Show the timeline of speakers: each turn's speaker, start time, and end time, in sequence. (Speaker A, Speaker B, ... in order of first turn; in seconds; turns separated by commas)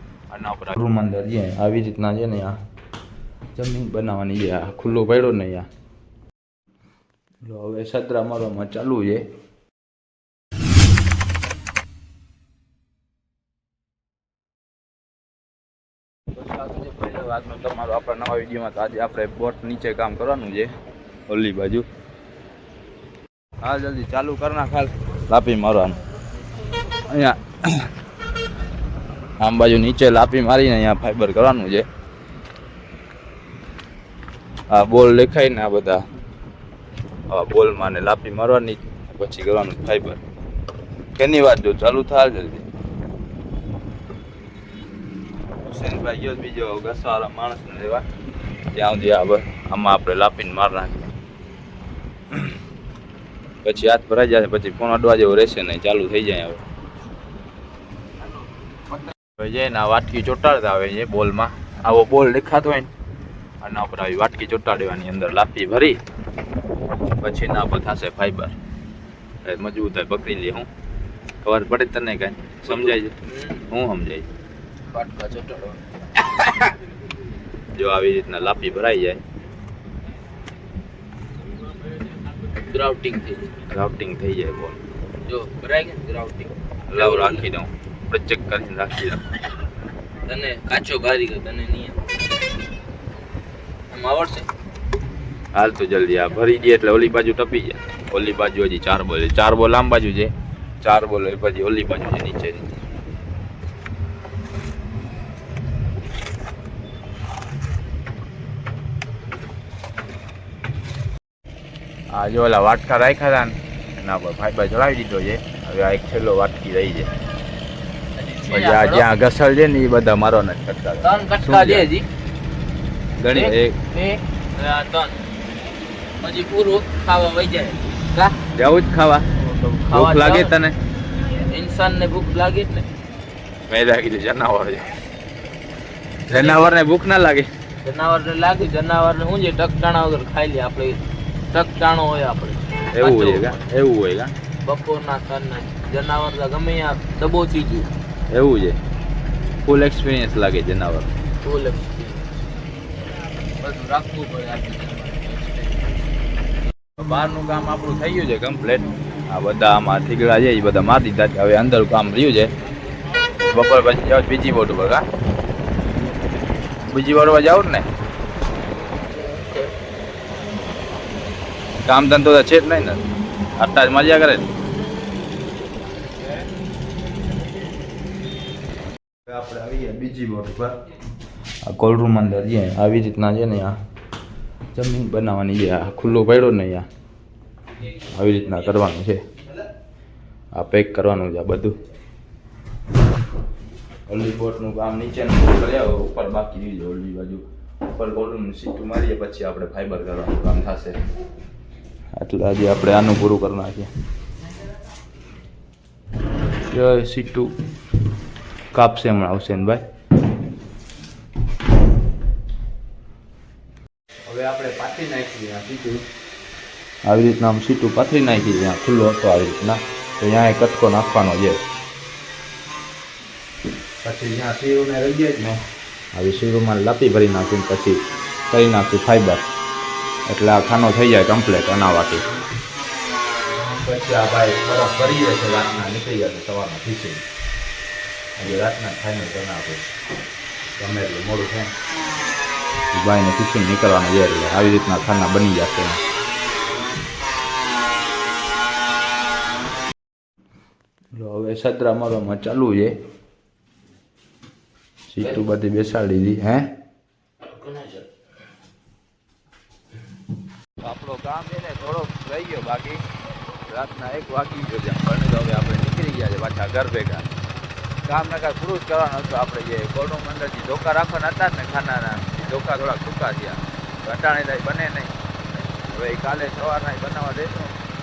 Speaker A: 0.3-2.6, Speaker A: 3.5-5.7, Speaker A: 7.4-9.2, Speaker A: 16.4-20.7, Speaker A: 21.3-21.9, Speaker A: 23.6-26.0, Speaker A: 27.1-27.9, Speaker A: 29.4-31.9, Speaker A: 34.7-36.0, Speaker A: 37.3-40.2, Speaker A: 41.1-42.6, Speaker A: 45.6-48.0, Speaker A: 48.7-51.1, Speaker A: 53.6-56.6, Speaker A: 59.0-62.9, Speaker A: 63.6-66.0, Speaker A: 67.0-68.5, Speaker A: 69.4-70.7, Speaker A: 71.4-73.1, Speaker B: 72.7-73.6, Speaker A: 73.7-74.3, Speaker B: 74.9-76.8, Speaker A: 77.7-79.2, Speaker B: 81.7-83.5, Speaker A: 83.7-84.8, Speaker B: 85.2-87.5, Speaker A: 86.9-89.3, Speaker B: 90.2-92.1, Speaker B: 93.9-94.5, Speaker A: 95.5-102.7, Speaker A: 112.1-117.1, Speaker B: 118.2-119.1, Speaker A: 118.5-121.9, Speaker B: 121.0-122.1, Speaker A: 123.2-123.8, Speaker B: 123.3-125.2, Speaker B: 126.2-128.4, Speaker A: 128.5-129.3, Speaker B: 129.4-130.5, Speaker A: 129.9-130.8, Speaker B: 131.2-132.9, Speaker A: 133.7-135.0, Speaker A: 136.3-137.5, Speaker B: 136.3-136.7, Speaker B: 137.8-143.6, Speaker A: 142.9-144.3, Speaker B: 144.6-147.9, Speaker A: 148.3-148.8, Speaker A: 149.6-151.1, Speaker B: 151.4-152.2, Speaker A: 153.6-155.6, Speaker A: 157.0-162.5, Speaker A: 163.5-165.0, Speaker A: 166.9-167.9, Speaker B: 169.1-169.7, Speaker A: 171.8-173.0, Speaker A: 173.6-174.5, Speaker A: 179.2-180.8, Speaker A: 181.6-183.8, Speaker A: 184.7-186.9, Speaker A: 187.9-189.3, Speaker A: 190.5-191.8, Speaker A: 194.1-201.0, Speaker A: 202.1-203.9, Speaker A: 206.7-207.5, Speaker A: 208.7-209.8, Speaker A: 214.2-216.0, Speaker A: 217.0-221.6, Speaker A: 224.0-225.6, Speaker A: 226.1-229.4, Speaker A: 230.3-232.2, Speaker A: 233.7-237.2, Speaker A: 238.4-239.8, Speaker A: 240.8-241.7, Speaker A: 242.9-246.0, Speaker A: 251.1-253.0, Speaker A: 255.1-256.7, Speaker B: 257.4-258.0, Speaker A: 260.8-263.0, Speaker A: 263.6-267.2, Speaker A: 268.0-277.7